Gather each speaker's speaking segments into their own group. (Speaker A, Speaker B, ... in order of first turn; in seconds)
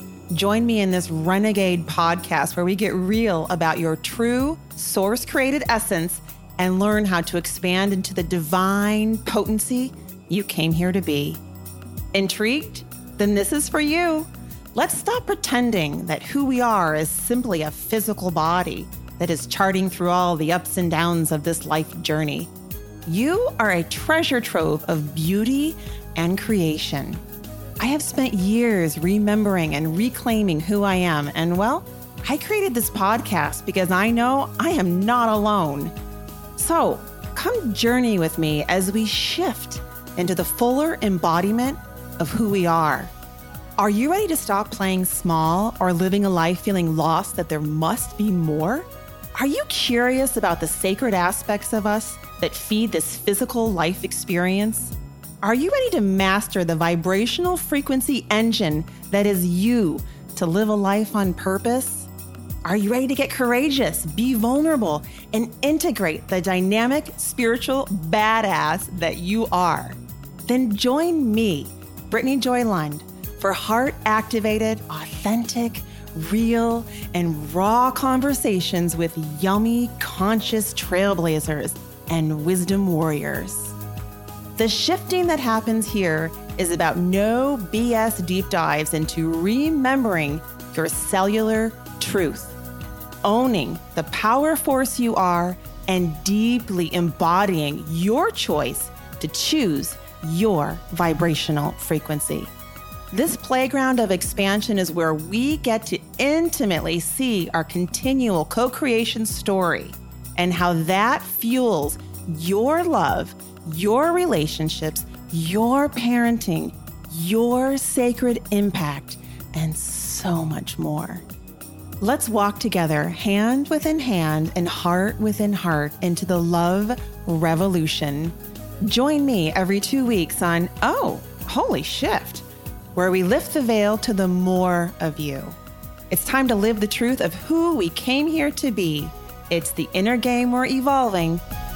Speaker A: 0.3-11.4, 12.1-22.5, 23.1-27.2, 27.8-35.9, 36.5-43.1, 43.8-62.1, 62.6-83.8, 84.6-92.6, 93.2-102.5, 103.1-121.2, 122.0-135.6, 136.1-141.4